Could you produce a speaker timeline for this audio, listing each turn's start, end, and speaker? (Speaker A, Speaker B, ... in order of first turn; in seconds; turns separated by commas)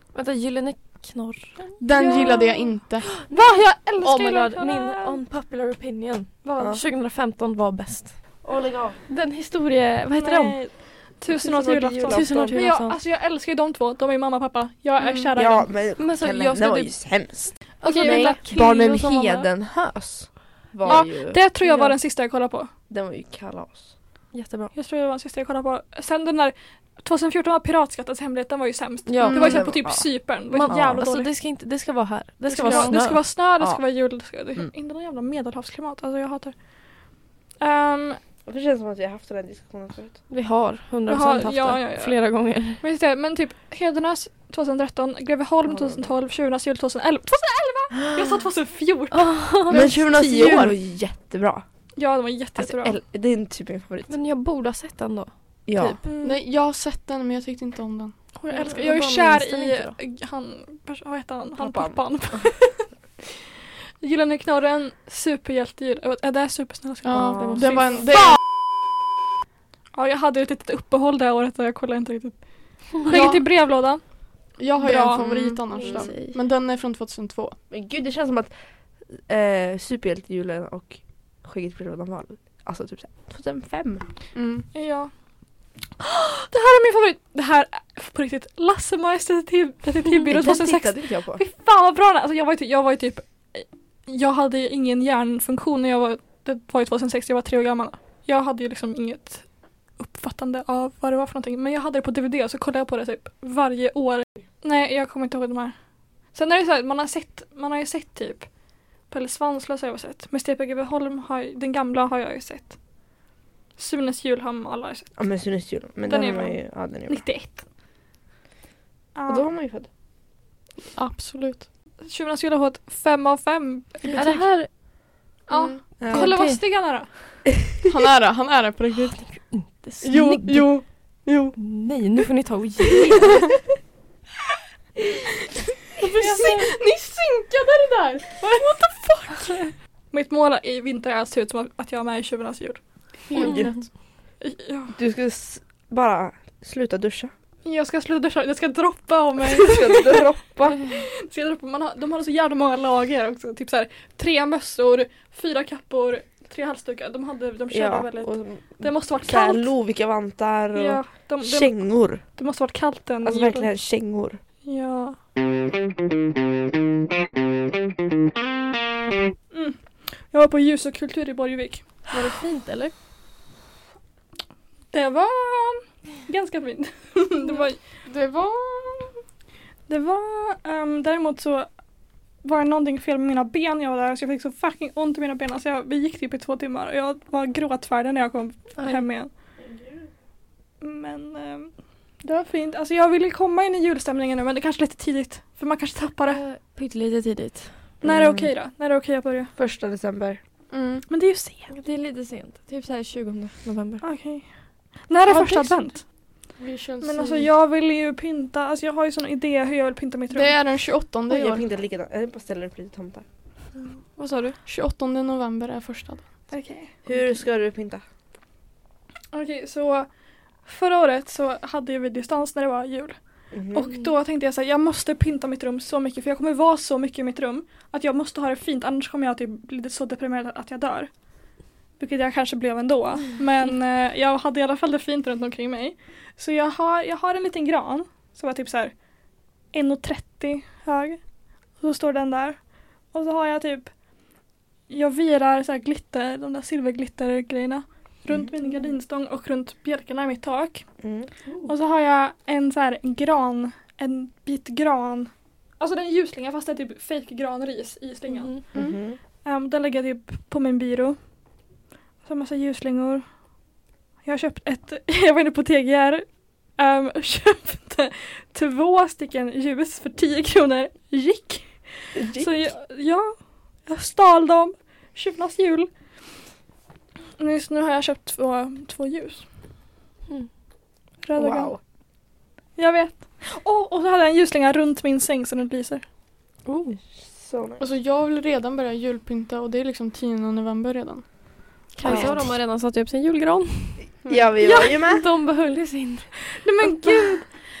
Speaker A: 0.1-2.4, Speaker B: 1.8-3.1, Speaker C: 1.9-5.2, Speaker A: 4.0-8.2, Speaker C: 6.4-6.7, Speaker D: 6.5-6.8, Speaker D: 8.4-9.0, Speaker A: 9.1-10.6, Speaker C: 10.1-15.7, Speaker A: 11.3-13.0, Speaker D: 11.7-12.6, Speaker A: 15.0-15.3, Speaker D: 15.3-21.4, Speaker A: 16.0-17.0, Speaker A: 17.8-18.9, Speaker C: 17.8-19.5, Speaker C: 20.8-22.7, Speaker A: 21.6-22.0, Speaker D: 22.9-23.9, Speaker A: 24.3-24.7, Speaker C: 24.7-31.3, Speaker A: 29.1-29.6, Speaker D: 29.2-30.1, Speaker A: 30.5-33.2, Speaker D: 30.6-31.0, Speaker C: 32.5-36.5, Speaker D: 32.6-32.9, Speaker C: 37.6-38.2, Speaker D: 38.5-40.2, Speaker A: 40.3-42.8, Speaker C: 41.1-42.1, Speaker C: 42.8-50.3, Speaker D: 45.7-46.1, Speaker A: 49.1-50.5, Speaker D: 49.7-51.6, Speaker C: 52.0-53.0, Speaker D: 52.6-54.1, Speaker A: 54.1-56.0, Speaker D: 55.7-56.0, Speaker C: 56.0-56.4, Speaker B: 56.2-58.2, Speaker C: 58.4-62.9, Speaker A: 58.5-59.9, Speaker D: 61.6-62.5, Speaker C: 64.0-68.0, Speaker B: 67.0-68.3, Speaker D: 67.1-67.8, Speaker C: 69.9-74.0, Speaker B: 73.1-73.5, Speaker B: 74.6-77.6, Speaker C: 74.8-75.2, Speaker D: 75.2-76.1, Speaker A: 75.7-76.3, Speaker D: 77.7-78.5, Speaker D: 79.1-84.0, Speaker B: 84.3-84.7, Speaker C: 84.7-85.1, Speaker C: 86.0-105.7, Speaker D: 90.2-91.4, Speaker C: 106.3-108.5, Speaker C: 109.1-112.7, Speaker C: 113.8-115.1, Speaker D: 115.2-117.2, Speaker C: 116.0-117.6, Speaker C: 119.1-119.5, Speaker D: 119.3-119.9, Speaker B: 120.9-121.7, Speaker C: 122.0-124.5, Speaker A: 124.1-124.7, Speaker B: 125.5-125.8, Speaker C: 125.5-127.4, Speaker D: 126.0-126.3, Speaker A: 126.1-126.6, Speaker B: 127.8-129.4, Speaker A: 129.1-130.9, Speaker B: 130.0-131.6, Speaker A: 131.6-133.4, Speaker B: 136.0-138.7, Speaker C: 136.2-136.7, Speaker C: 138.4-142.8, Speaker B: 143.3-143.8, Speaker D: 143.3-143.7, Speaker C: 144.4-144.9, Speaker D: 144.9-147.3, Speaker C: 147.6-159.7, Speaker D: 149.4-150.8, Speaker D: 157.7-162.2, Speaker C: 160.7-163.7, Speaker D: 163.2-164.4, Speaker C: 164.6-165.2, Speaker C: 169.5-172.0, Speaker A: 172.1-172.9, Speaker C: 174.9-177.8, Speaker B: 178.0-179.2, Speaker C: 179.9-181.7, Speaker C: 182.4-189.3, Speaker A: 188.8-189.1, Speaker C: 190.8-196.4, Speaker A: 196.2-197.7, Speaker D: 198.0-198.5, Speaker C: 198.0-199.5, Speaker D: 199.6-200.4, Speaker B: 200.7-201.0, Speaker C: 201.1-201.7, Speaker A: 201.7-204.0, Speaker C: 204.0-204.4, Speaker C: 205.1-206.1, Speaker A: 205.3-205.8, Speaker B: 206.6-207.5, Speaker C: 207.0-210.6, Speaker B: 210.3-211.6, Speaker D: 211.3-213.2, Speaker A: 214.1-214.6, Speaker B: 214.7-216.3, Speaker C: 216.5-217.0, Speaker D: 217.0-218.0, Speaker C: 219.3-220.1, Speaker C: 220.6-223.2, Speaker D: 223.5-223.9, Speaker C: 223.7-231.1, Speaker C: 232.0-238.9, Speaker C: 239.7-241.2, Speaker C: 241.8-242.6, Speaker C: 243.1-243.9, Speaker C: 244.9-250.8, Speaker D: 251.0-251.3, Speaker C: 251.7-258.9, Speaker A: 258.3-258.6, Speaker D: 258.7-259.2, Speaker C: 259.4-261.2, Speaker C: 262.2-263.2, Speaker C: 264.2-275.9, Speaker D: 272.1-272.5, Speaker C: 277.4-279.4, Speaker C: 281.2-281.7, Speaker D: 281.3-281.8, Speaker C: 282.8-286.0, Speaker A: 286.7-286.9, Speaker D: 287.1-287.9, Speaker B: 287.8-291.3, Speaker A: 291.9-294.1, Speaker D: 292.0-292.4, Speaker D: 294.2-295.2, Speaker A: 294.6-296.3, Speaker C: 294.6-294.9, Speaker C: 296.6-297.5